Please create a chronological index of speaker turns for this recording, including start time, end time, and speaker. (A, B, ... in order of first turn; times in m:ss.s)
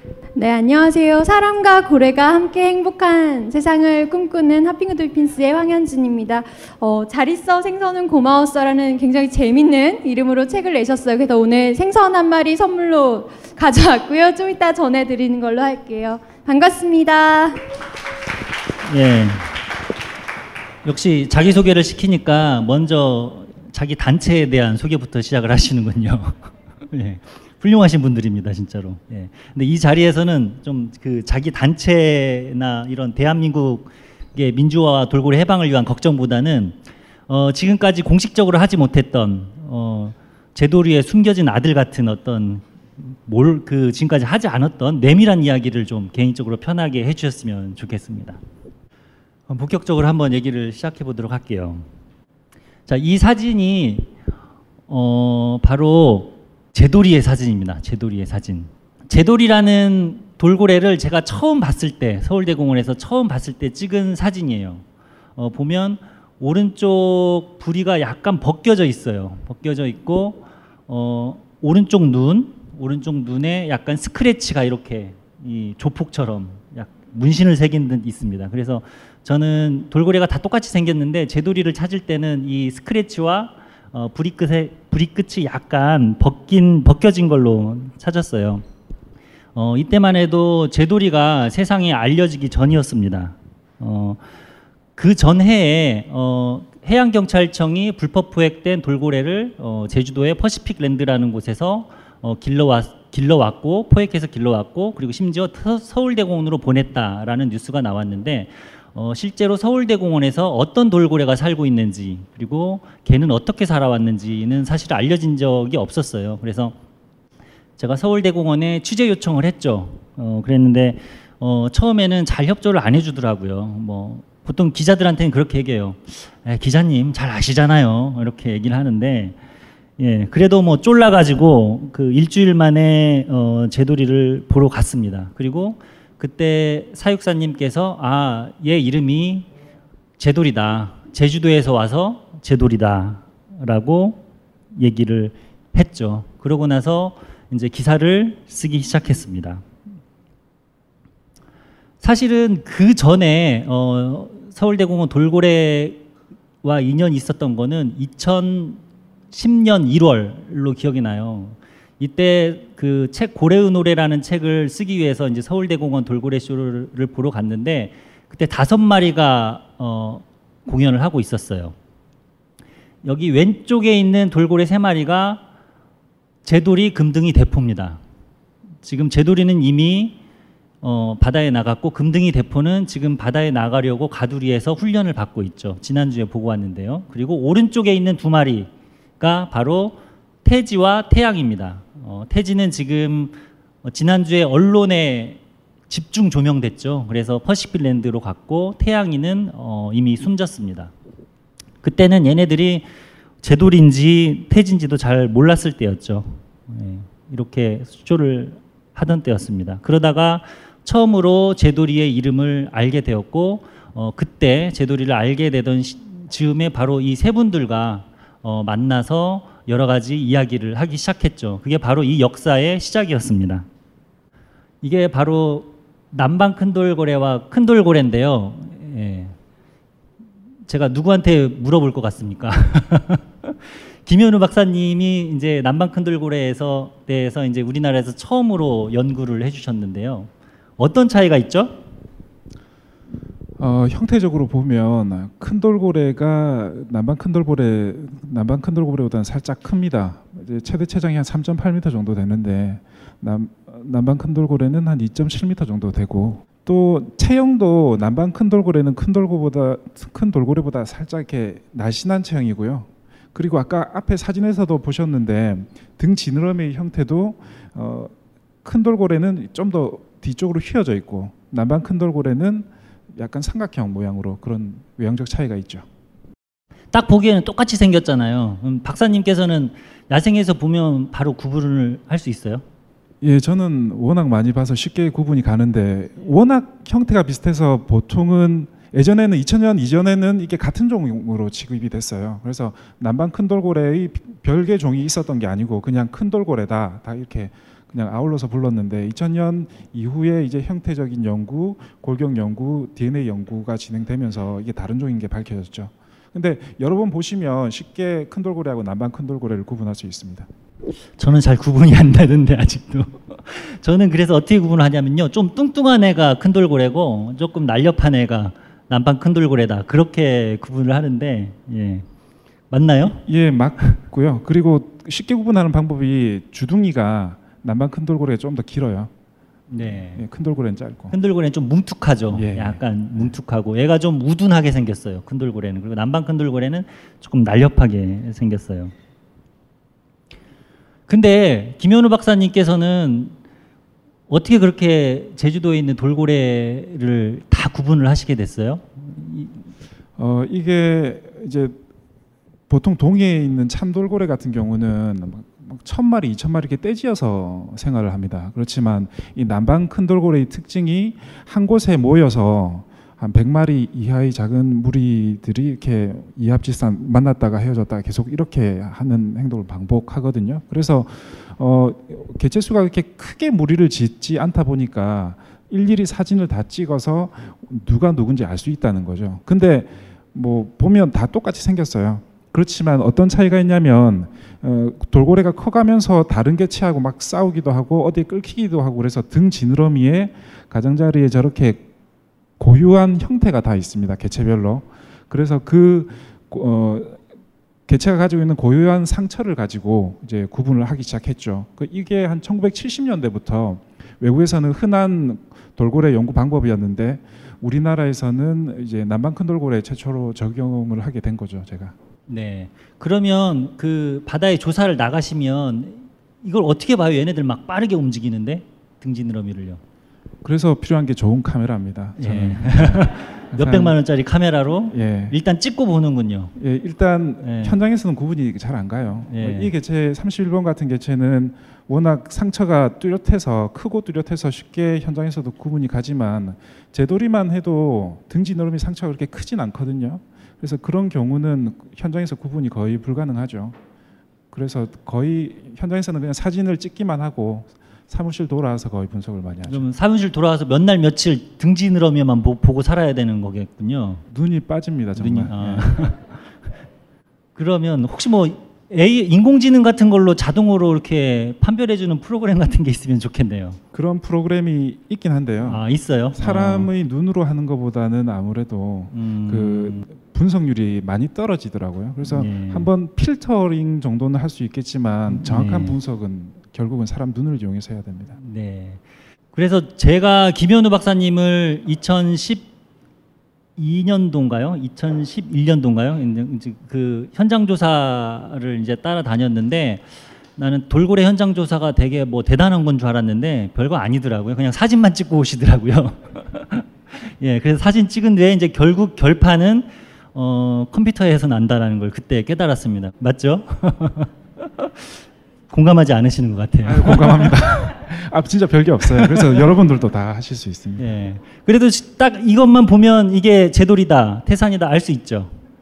0:00.4-0:17.6 A
0:18.9-0:19.5 B
0:20.8-0:36.8 B
0:37.3-0:48.4 B
0:49.5-0:51.9 B
0:52.9-0:54.1 B
0:54.9-1:04.8 B
1:05.4-1:28.6 B
1:29.6-1:34.2 B
1:35.0-1:56.8 B
1:57.8-2:09.4 B
2:10.0-2:19.5 B
2:20.2-2:29.6 B
2:32.0-2:36.0 B
2:36.6-2:51.8 B
2:53.0-2:55.4 B
2:56.4-2:58.0 B
2:58.8-3:00.2 B
3:00.8-3:08.7 B
3:09.2-3:20.9 B
3:21.8-3:22.9 B
3:23.4-3:43.6 B
3:44.8-3:49.3 B
3:50.7-4:01.8 B
4:03.6-4:28.1 C
4:28.6-4:35.8 C
4:36.9-4:42.6 B
4:43.2-5:10.5 C
5:11.2-5:22.0 B
5:22.7-5:23.2 B
5:23.2-5:29.1 C
5:29.7-5:30.2 B
5:29.9-5:31.1 C
5:31.1-5:38.9 B
5:32.3-5:33.3 C
5:41.1-5:43.3 B
5:44.3-5:49.6 B
5:50.2-5:51.8 C
5:52.7-6:31.9 C
6:32.6-6:37.2 C
6:37.9-6:52.0 C
6:52.3-6:59.8 B
7:00.4-7:04.0 C
7:02.2-7:06.5 B
7:04.9-7:05.4 C
7:06.6-7:23.8 C
7:07.4-7:07.8 B
7:09.3-7:09.7 B
7:24.5-7:29.9 C
7:29.7-7:34.2 B
7:34.3-7:36.1 C
7:35.2-7:36.2 B
7:37.6-7:43.8 B
7:43.9-7:45.8 C
7:45.6-7:46.9 B
7:46.3-7:58.4 C
7:49.1-7:50.1 B
7:52.2-7:52.9 B
7:55.3-7:56.0 B
7:58.4-7:59.0 B
7:59.5-8:02.7 B
8:03.8-8:10.0 B
8:10.6-8:25.1 B
8:25.7-8:28.0 B
8:26.8-8:31.1 C
8:29.1-8:29.7 B
8:31.0-8:35.6 B